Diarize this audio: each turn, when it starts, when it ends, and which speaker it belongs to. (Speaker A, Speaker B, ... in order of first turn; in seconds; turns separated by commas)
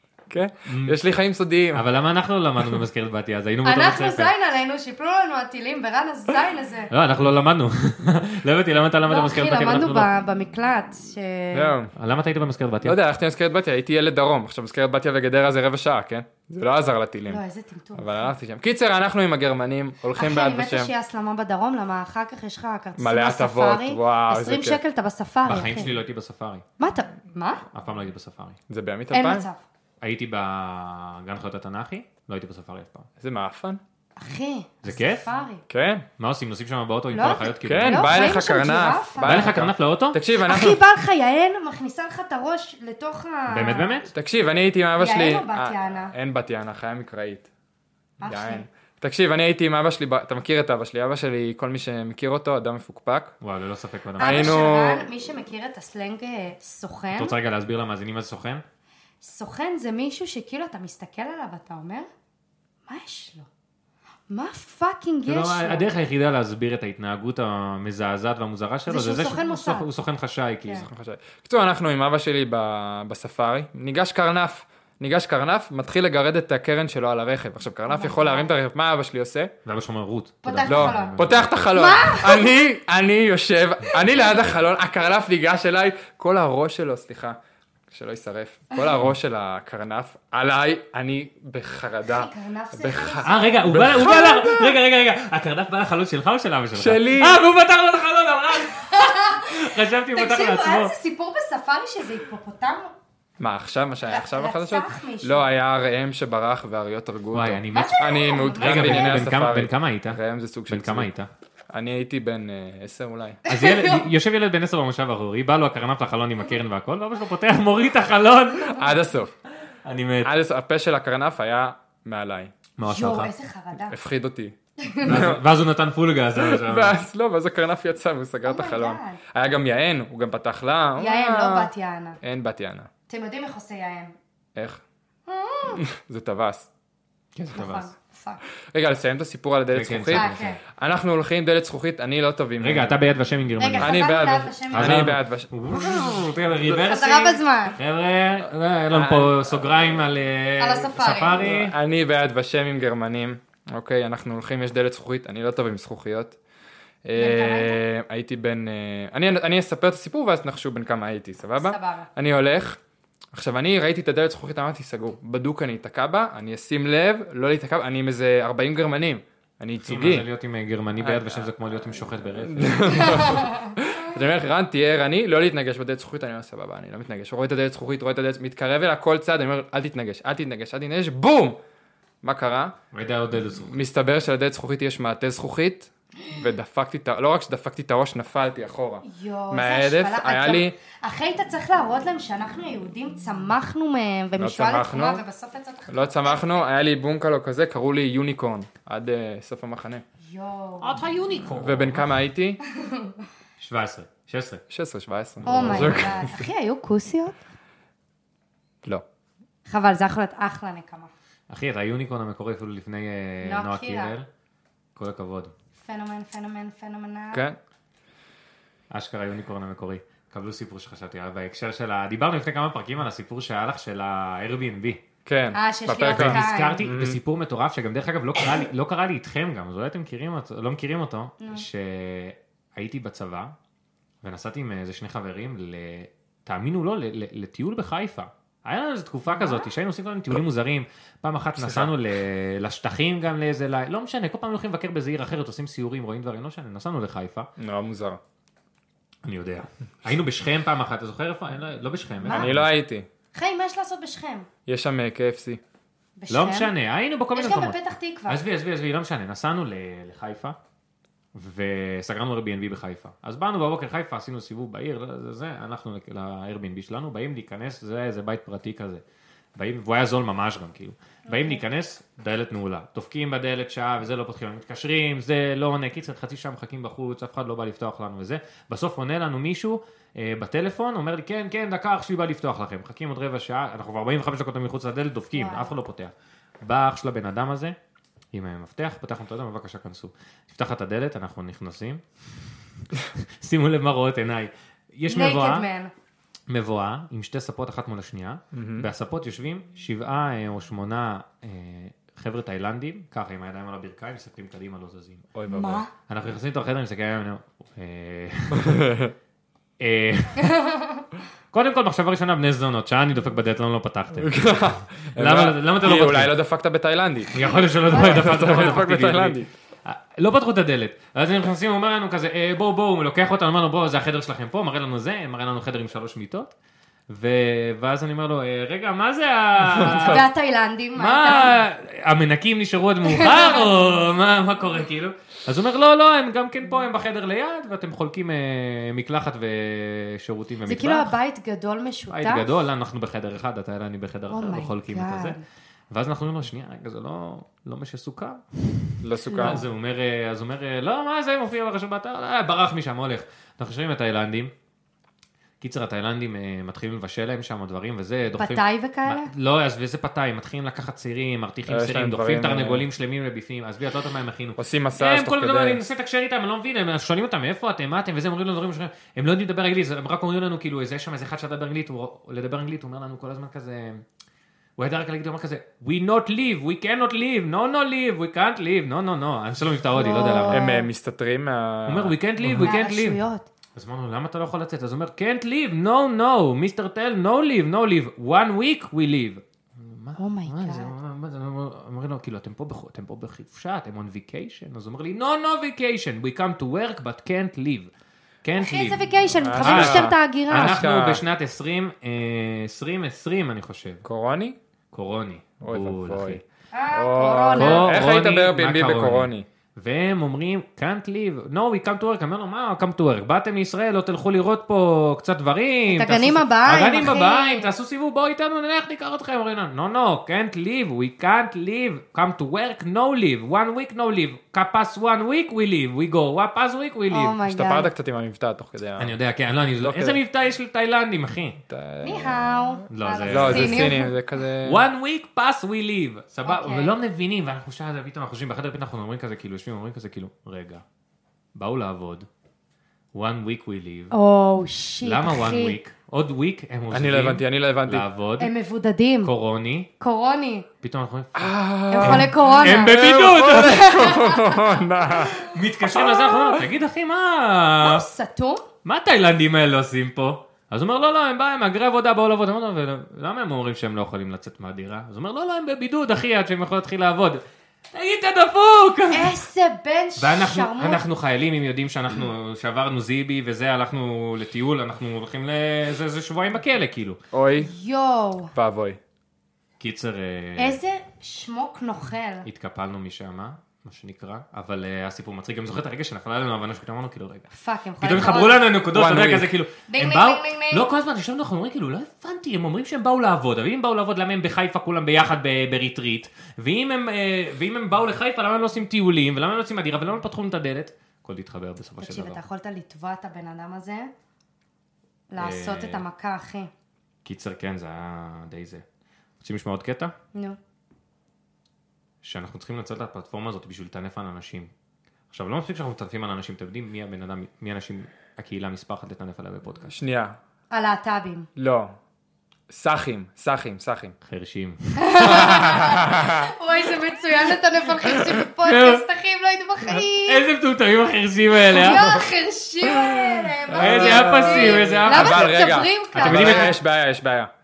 Speaker A: 0.3-1.9, Speaker B: 0.7-1.0, Speaker B: 1.7-4.3, Speaker C: 3.6-6.9, Speaker B: 6.9-10.1, Speaker C: 9.1-11.8, Speaker A: 11.5-11.9, Speaker B: 12.0-13.0, Speaker A: 12.8-17.4, Speaker C: 17.3-18.3, Speaker A: 18.0-20.9, Speaker C: 20.1-26.0, Speaker A: 23.0-24.8, Speaker B: 25.5-26.6, Speaker C: 26.8-27.6, Speaker B: 27.7-28.6, Speaker A: 28.7-29.5, Speaker C: 29.1-29.6, Speaker B: 30.0-33.1, Speaker A: 33.2-33.8, Speaker C: 34.2-35.6, Speaker B: 34.8-35.3, Speaker A: 35.7-36.1, Speaker B: 36.2-38.1, Speaker C: 37.1-39.5, Speaker A: 37.6-40.8, Speaker B: 39.2-40.2, Speaker C: 40.4-44.0, Speaker B: 43.5-44.1, Speaker A: 44.1-47.5, Speaker C: 45.0-46.1, Speaker C: 48.2-48.6, Speaker A: 48.2-53.4, Speaker B: 53.4-54.6, Speaker C: 54.2-57.4, Speaker A: 54.2-55.1, Speaker B: 57.1-58.6, Speaker C: 59.2-62.1, Speaker C: 62.9-63.5, Speaker C: 64.3-65.9, Speaker B: 65.3-70.9, Speaker C: 68.9-69.9, Speaker A: 70.8-79.5, Speaker C: 77.9-78.5, Speaker B: 79.7-81.7, Speaker C: 80.4-82.5, Speaker A: 80.7-87.4, Speaker A: 87.9-94.7, Speaker C: 92.1-94.0, Speaker B: 93.2-100.9, Speaker A: 96.8-97.4, Speaker C: 98.6-102.9, Speaker A: 103.4-111.1, Speaker C: 104.1-105.5, Speaker B: 107.3-111.3, Speaker C: 107.7-109.3, Speaker A: 111.7-113.4, Speaker C: 113.5-114.1, Speaker B: 113.5-118.9, Speaker A: 118.7-119.3, Speaker B: 119.8-120.3, Speaker A: 120.2-122.5, Speaker B: 122.8-123.3, Speaker C: 122.8-124.0, Speaker A: 123.9-125.4, Speaker C: 124.8-125.3, Speaker B: 125.0-127.0, Speaker A: 126.4-132.9, Speaker C: 128.4-129.2, Speaker C: 131.0-132.2, Speaker C: 133.1-134.2, Speaker A: 134.6-134.8, Speaker C: 135.3-135.8, Speaker A: 135.8-136.7, Speaker B: 137.4-137.9, Speaker C: 137.5-138.4, Speaker A: 138.7-143.0, Speaker B: 139.7-140.6, Speaker C: 140.1-140.6, Speaker B: 142.6-144.0, Speaker C: 143.6-145.1, Speaker A: 143.8-146.2, Speaker B: 144.7-151.8, Speaker C: 146.7-147.8, Speaker A: 148.9-149.7, Speaker C: 150.6-151.4, Speaker A: 151.3-156.4, Speaker A: 157.1-162.8, Speaker C: 157.2-157.8, Speaker C: 161.6-162.1, Speaker A: 163.3-170.3, Speaker B: 169.8-173.4, Speaker A: 171.0-171.5, Speaker A: 172.4-181.6, Speaker C: 173.2-173.7, Speaker A: 182.2-182.8, Speaker B: 182.9-183.7, Speaker A: 183.6-190.8, Speaker C: 189.0-196.4, Speaker A: 194.4-195.2, Speaker A: 195.9-200.0, Speaker C: 200.2-201.0, Speaker B: 200.8-202.1, Speaker A: 201.6-202.6, Speaker C: 202.7-203.2, Speaker B: 203.6-204.6, Speaker A: 204.7-206.4, Speaker B: 205.4-206.1, Speaker C: 205.4-207.4, Speaker C: 209.7-211.1, Speaker B: 211.5-214.3, Speaker C: 213.4-214.2, Speaker B: 215.0-215.5, Speaker C: 215.8-217.4, Speaker A: 217.3-217.6, Speaker B: 218.9-225.0, Speaker A: 225.2-227.2, Speaker C: 225.5-226.9, Speaker B: 226.1-233.5, Speaker C: 231.4-231.7, Speaker B: 234.2-247.5, Speaker C: 239.3-239.7, Speaker A: 241.6-241.9, Speaker A: 247.6-248.2, Speaker B: 249.2-252.7, Speaker C: 252.2-252.5, Speaker A: 252.3-253.1, Speaker C: 253.3-254.5, Speaker A: 254.7-255.6, Speaker C: 256.2-256.7, Speaker B: 256.3-257.8, Speaker C: 257.3-258.4, Speaker B: 258.3-260.6, Speaker B: 261.3-269.0, Speaker B: 269.6-287.8, Speaker C: 271.3-271.6, Speaker C: 285.3-285.7, Speaker B: 288.3-295.6, Speaker C: 295.1-295.9, Speaker B: 296.5-305.3, Speaker A: 298.5-298.9, Speaker A: 305.3-305.9, Speaker C: 305.5-305.9, Speaker B: 306.1-308.9, Speaker A: 308.5-309.1, Speaker B: 309.8-310.7, Speaker C: 310.4-311.0, Speaker B: 311.5-316.4, Speaker A: 314.2-319.5, Speaker B: 317.3-326.5, Speaker C: 317.9-318.2, Speaker B: 327.1-330.3, Speaker A: 329.8-330.2, Speaker C: 329.8-331.6, Speaker B: 330.9-341.1, Speaker C: 333.1-333.7, Speaker C: 340.7-342.5, Speaker B: 342.1-345.4, Speaker C: 344.3-345.4, Speaker B: 345.9-354.5, Speaker A: 349.0-349.6, Speaker C: 349.3-349.6, Speaker B: 355.6-374.0, Speaker C: 358.4-359.3, Speaker A: 361.7-362.9, Speaker A: 364.6-365.8, Speaker B: 374.8-380.7, Speaker C: 380.0-380.8, Speaker A: 380.5-382.7, Speaker B: 381.9-383.2, Speaker C: 382.6-383.5, Speaker B: 383.8-397.9, Speaker C: 390.2-390.9, Speaker B: 398.4-399.1, Speaker C: 398.6-400.8, Speaker A: 399.4-401.2, Speaker B: 399.6-404.0, Speaker A: 404.0-404.6, Speaker B: 404.9-406.4, Speaker A: 405.6-406.4, Speaker C: 406.7-408.0, Speaker A: 406.9-409.5, Speaker B: 407.6-427.4, Speaker C: 415.9-417.7, Speaker C: 427.1-427.9, Speaker A: 427.4-429.1, Speaker B: 429.0-431.6, Speaker A: 429.8-430.2, Speaker A: 431.7-432.5, Speaker C: 432.0-434.1, Speaker B: 432.9-433.9, Speaker A: 433.3-434.9, Speaker B: 434.6-440.8, Speaker C: 436.4-436.9, Speaker B: 441.6-442.3, Speaker B: 443.1-444.1, Speaker C: 444.1-445.8, Speaker B: 445.0-448.5, Speaker A: 446.9-448.1, Speaker C: 448.4-449.3, Speaker B: 449.2-449.9, Speaker C: 450.0-450.7, Speaker B: 450.8-453.9, Speaker A: 451.4-456.6, Speaker C: 451.9-455.5, Speaker B: 455.4-458.1, Speaker C: 457.8-458.6, Speaker B: 458.9-467.4, Speaker B: 467.9-469.4, Speaker C: 469.1-471.0, Speaker B: 470.2-477.2, Speaker A: 477.3-477.7, Speaker C: 477.6-478.5, Speaker A: 478.5-479.0, Speaker B: 479.8-480.8, Speaker C: 480.6-482.5, Speaker B: 482.4-487.5, Speaker C: 487.5-488.7, Speaker B: 488.0-502.4, Speaker A: 488.9-489.5, Speaker C: 489.9-490.9, Speaker C: 502.0-504.1, Speaker C: 505.3-506.7, Speaker B: 505.4-506.0, Speaker B: 507.2-508.8, Speaker B: 509.4-510.1, Speaker B: 512.2-514.7, Speaker B: 515.3-520.0, Speaker A: 519.9-520.4, Speaker C: 520.7-521.5, Speaker A: 521.6-521.9, Speaker A: 522.7-524.2, Speaker B: 524.2-525.8, Speaker C: 525.0-530.5, Speaker A: 525.3-526.5, Speaker B: 528.6-529.0, Speaker B: 530.3-532.2, Speaker C: 531.7-536.8, Speaker A: 533.7-537.5, Speaker B: 533.7-535.6, Speaker B: 536.1-536.8